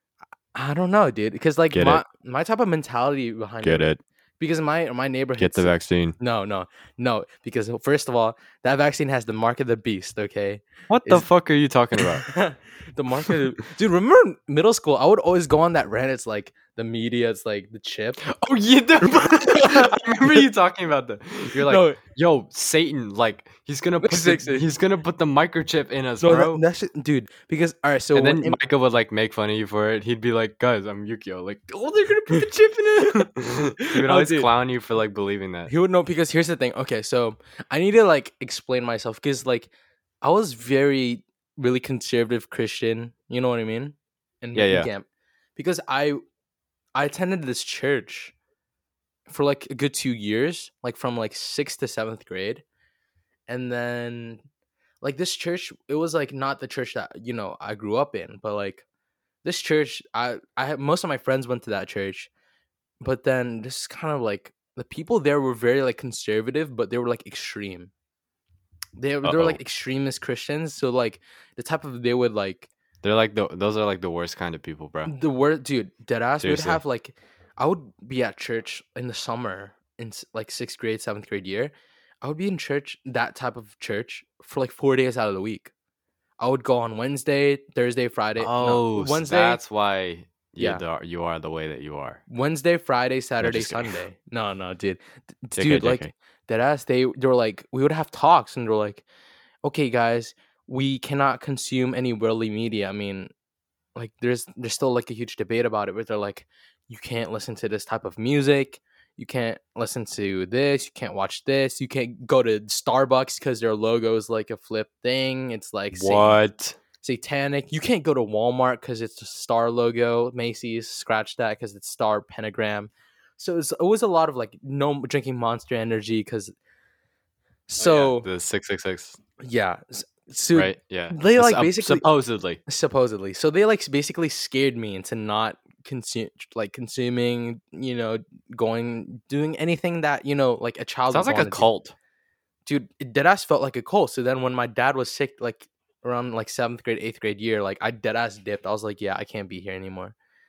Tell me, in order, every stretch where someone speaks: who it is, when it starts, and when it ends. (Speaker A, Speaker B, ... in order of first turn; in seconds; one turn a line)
Speaker A: 0.5-11.3
Speaker B: 1.7-2.0
Speaker B: 3.6-4.0
Speaker B: 5.4-6.2
Speaker B: 10.9-12.3
Speaker A: 12.0-18.3
Speaker B: 18.2-26.6
Speaker A: 19.0-20.5
Speaker A: 21.6-22.0
Speaker A: 24.0-24.7
Speaker A: 26.2-28.6
Speaker B: 28.1-35.7
Speaker A: 33.0-33.3
Speaker A: 33.8-34.5
Speaker A: 35.7-39.7
Speaker A: 40.2-45.1
Speaker B: 44.5-44.9
Speaker A: 45.6-46.2
Speaker A: 47.0-48.3
Speaker A: 49.3-52.6
Speaker A: 53.5-54.4
Speaker A: 55.0-58.8
Speaker A: 59.4-62.3
Speaker A: 63.0-67.9
Speaker A: 69.0-72.7
Speaker B: 69.2-69.6
Speaker B: 73.0-75.1
Speaker A: 75.1-85.7
Speaker B: 76.4-76.8
Speaker A: 86.4-89.6
Speaker B: 88.4-92.2
Speaker A: 90.6-90.8
Speaker A: 92.3-99.0
Speaker B: 93.4-94.0
Speaker B: 95.6-96.1
Speaker A: 99.6-103.3
Speaker A: 104.0-116.4
Speaker B: 115.9-116.8
Speaker A: 117.0-126.5
Speaker A: 127.7-128.3
Speaker B: 127.8-129.2
Speaker A: 129.4-132.1
Speaker B: 130.5-132.6
Speaker A: 132.7-141.7
Speaker B: 141.1-141.9
Speaker A: 142.7-150.2